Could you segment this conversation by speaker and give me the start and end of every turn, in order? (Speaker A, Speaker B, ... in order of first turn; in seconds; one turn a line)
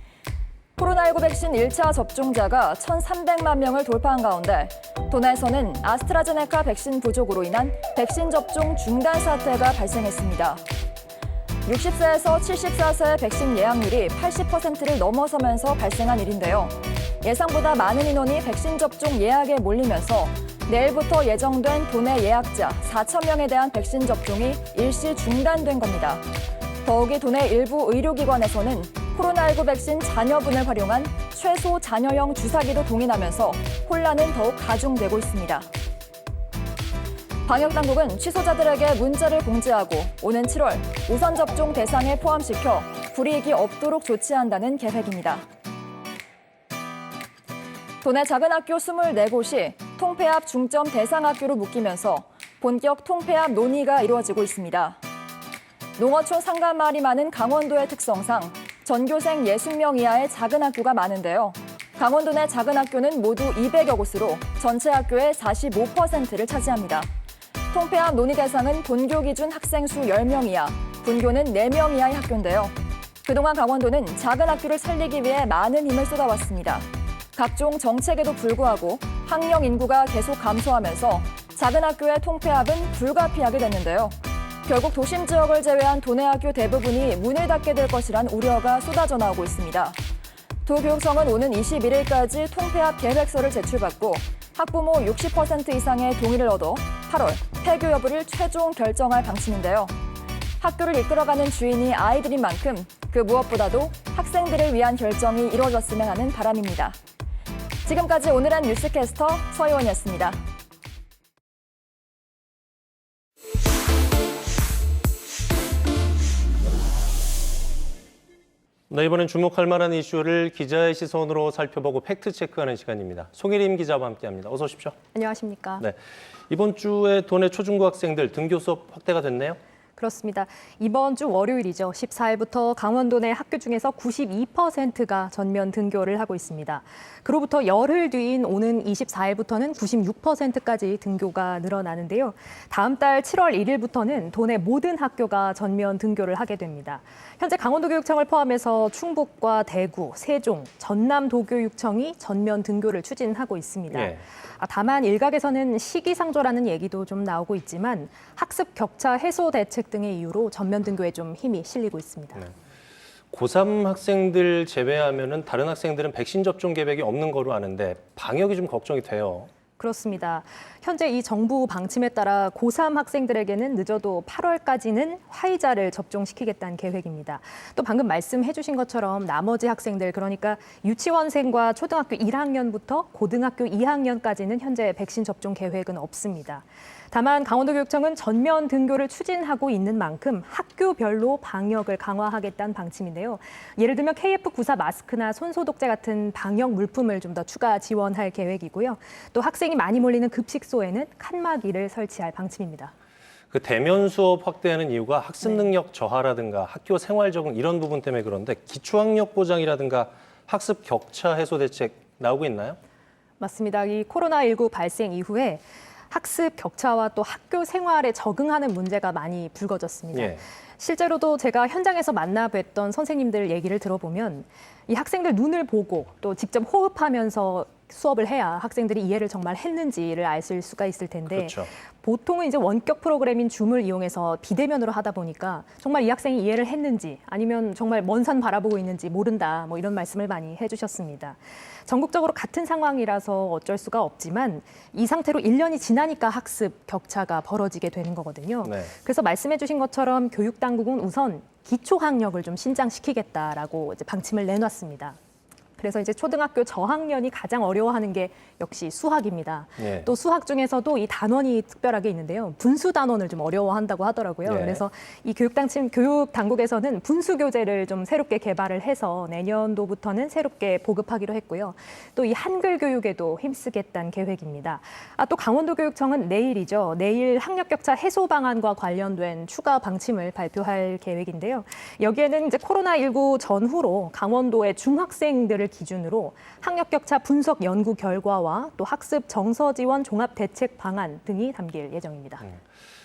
Speaker A: 0.8-10.6
Speaker A: 11.7-26.2
Speaker A: 26.8-35.7
Speaker A: 37.5-45.5
Speaker A: 48.0-55.0
Speaker A: 56.0-67.1
Speaker A: 67.7-90.0
Speaker A: 90.7-99.9
Speaker A: 100.6-107.0
Speaker A: 107.8-110.4
Speaker B: 118.9-125.0
Speaker C: 125.2-125.8
Speaker B: 126.5-129.6
Speaker C: 130.0-162.5
Speaker B: 153.9-154.2
Speaker B: 163.3-169.5
Speaker C: 169.8-202.9
Speaker B: 203.5-212.8
Speaker C: 213.4-255.2
Speaker B: 220.1-220.4
Speaker B: 231.3-231.7
Speaker B: 248.6-248.9
Speaker C: 255.8-292.4
Speaker B: 259.8-260.1
Speaker B: 264.5-264.8